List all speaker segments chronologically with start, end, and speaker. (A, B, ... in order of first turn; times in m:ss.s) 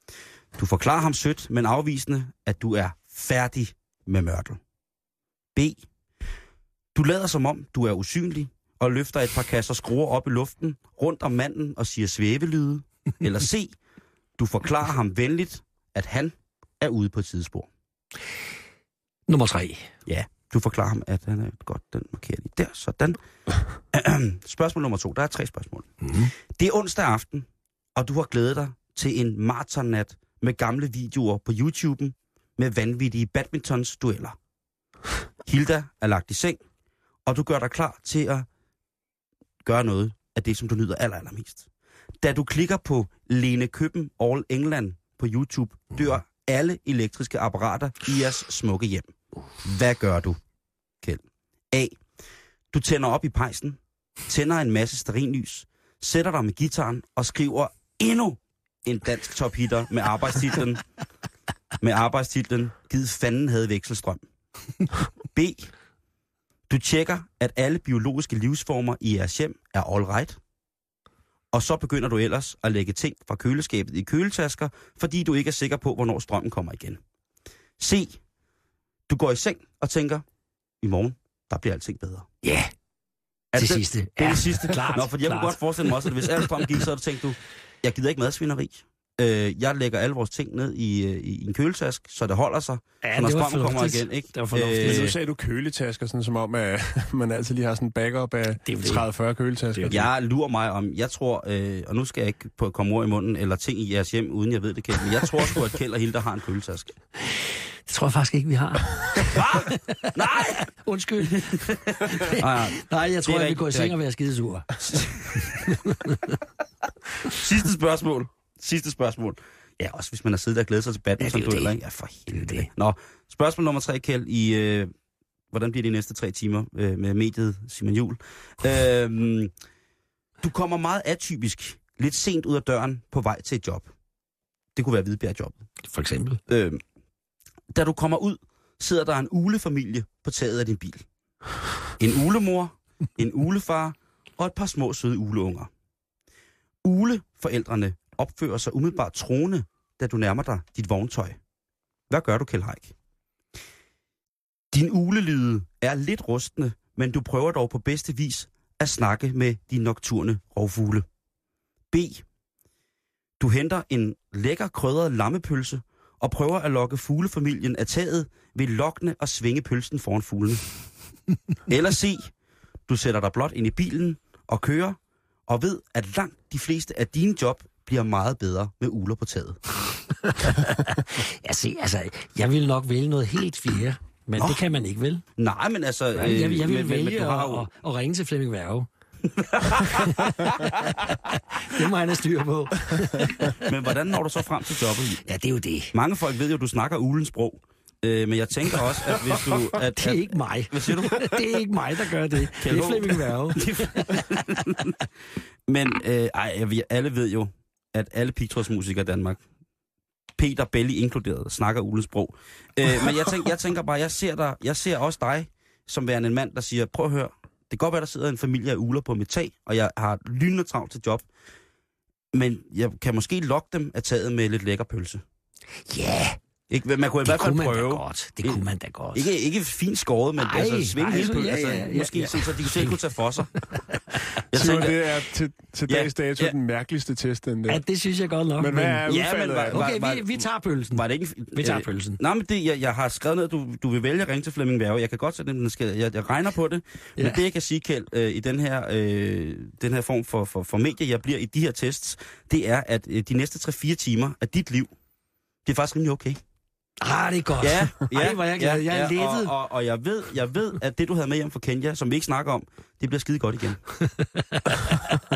0:00.5-0:04.6 A
0:05.5-0:05.8 A
0:06.9-0:13.8 A
0:14.4-0:17.7 A
0:19.3-0:19.9 B
0:20.0-0:23.2 A
0:23.9-0:34.4 A
0:26.0-0:26.3 B
0:35.4-0:36.6 A
0:37.2-0:38.4 A
0:39.6-0:41.7 A
0:42.2-0:50.4 A
0:51.0-0:52.0 A
0:52.7-1:00.8 A
1:01.8-1:04.2 A
1:05.3-1:05.7 A
1:06.7-1:10.4 A
1:11.5-1:17.0 A
1:17.8-1:18.2 A
1:19.1-1:20.2 A
1:20.8-1:22.3 A
1:22.4-1:22.7 B
1:23.5-1:35.1 A
1:23.5-1:26.4 B
1:33.0-1:35.1 B
1:34.8-1:40.0 C
1:38.6-1:39.1 B
1:39.7-1:40.0 B
1:39.9-1:46.9 A
1:47.2-1:56.4 B
1:49.2-1:50.7 A
1:51.2-1:54.0 A
1:54.8-1:55.7 A
1:57.3-2:04.9 A
2:01.2-2:01.7 B
2:02.3-2:02.7 B
2:05.5-2:09.5 A
2:10.4-2:13.9 A
2:14.8-2:15.6 A
2:15.9-2:16.4 B
2:16.5-2:16.8 A
2:17.7-2:21.0 A
2:22.0-2:25.7 A
2:26.8-2:31.4 A
2:32.1-2:32.9 A
2:34.7-2:41.0 A
2:41.9-2:42.2 A
2:43.4-2:50.6 A
2:51.7-2:52.3 A
2:52.9-2:59.6 A
3:00.2-3:05.2 B
3:04.4-3:04.6 A
3:05.4-3:07.7 A
3:06.1-3:08.9 B
3:09.2-3:11.0 A
3:09.8-3:13.6 B
3:13.5-3:15.2 A
3:15.2-3:16.0 B
3:15.9-3:21.4 A
3:20.0-3:24.3 B
3:22.5-3:25.0 A
3:25.7-3:29.4 A
3:30.4-3:41.2 A
3:42.3-3:45.2 A
3:45.9-3:46.4 B
3:46.7-3:53.5 A
3:47.2-3:49.3 B
3:50.4-3:53.0 B
3:53.7-3:54.2 B
3:54.5-3:55.1 A
3:54.5-3:57.8 C
3:55.9-3:56.5 A
3:57.7-3:59.1 B
3:58.6-3:59.8 C
3:59.0-4:14.9 A
3:59.7-4:02.2 B
4:15.6-4:16.4 A
4:17.0-4:19.5 B
4:17.6-4:23.8 A
4:24.4-4:25.0 B